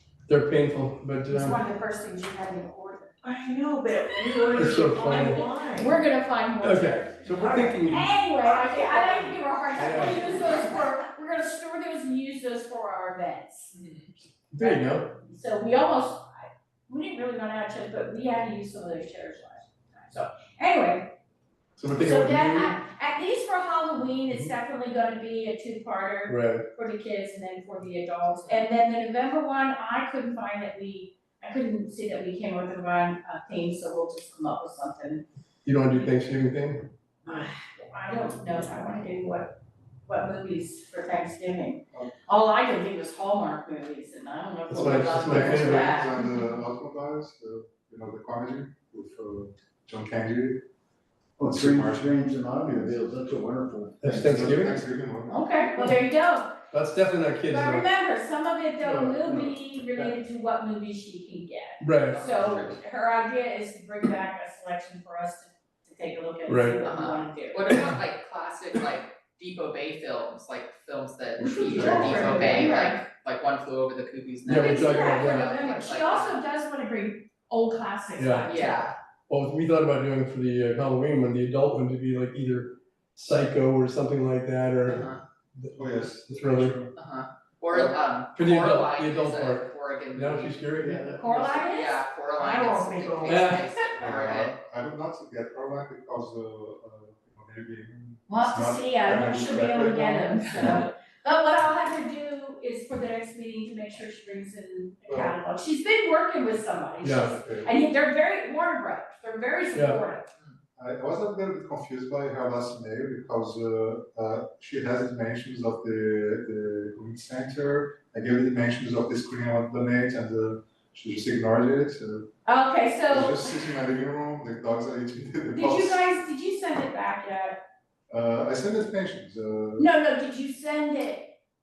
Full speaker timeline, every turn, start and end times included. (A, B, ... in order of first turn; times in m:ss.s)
0:00.3-0:01.6 A
0:01.3-0:03.2 B
0:03.2-0:06.0 C
0:04.5-0:05.4 A
0:04.8-0:13.7 B
0:06.6-0:08.1 A
0:07.3-0:10.2 C
0:09.8-0:10.2 A
0:13.7-0:14.1 D
0:14.5-0:15.1 A
0:14.6-0:21.1 B
0:21.8-0:22.7 A
0:22.0-0:35.2 B
0:26.3-0:26.6 A
0:35.6-0:36.9 A
0:37.2-0:39.5 B
0:40.1-0:46.2 B
0:44.7-0:45.9 A
0:44.9-0:50.6 E
0:51.4-0:54.5 F
0:51.4-0:53.1 E
0:54.0-0:54.8 A
0:54.1-0:55.4 E
0:55.3-0:56.6 B
0:56.7-0:57.8 A
0:57.5-1:07.8 B
0:58.8-1:00.1 A
1:01.8-1:02.3 A
1:02.1-1:02.8 D
1:06.5-1:06.8 A
1:06.8-1:16.4 D
1:11.4-1:13.0 B
1:11.6-1:12.7 E
1:11.7-1:12.5 A
1:14.4-1:15.5 A
1:14.5-1:18.9 B
1:18.2-1:18.5 A
1:18.4-1:18.9 D
1:19.3-1:26.8 A
1:24.8-1:25.2 D
1:25.7-1:26.9 E
1:26.9-1:30.6 D
1:28.3-1:31.2 A
1:31.2-1:32.0 B
1:31.2-1:34.5 D
1:32.4-1:33.5 C
1:33.3-1:33.7 A
1:34.0-1:40.8 E
1:38.3-1:50.3 B
1:45.1-1:45.3 E
1:47.0-1:47.3 A
1:47.4-1:47.7 E
1:50.8-2:02.3 E
2:02.4-2:03.7 B
2:03.1-2:06.0 E
2:05.6-2:07.6 B
2:08.1-2:09.9 E
2:09.8-2:11.3 B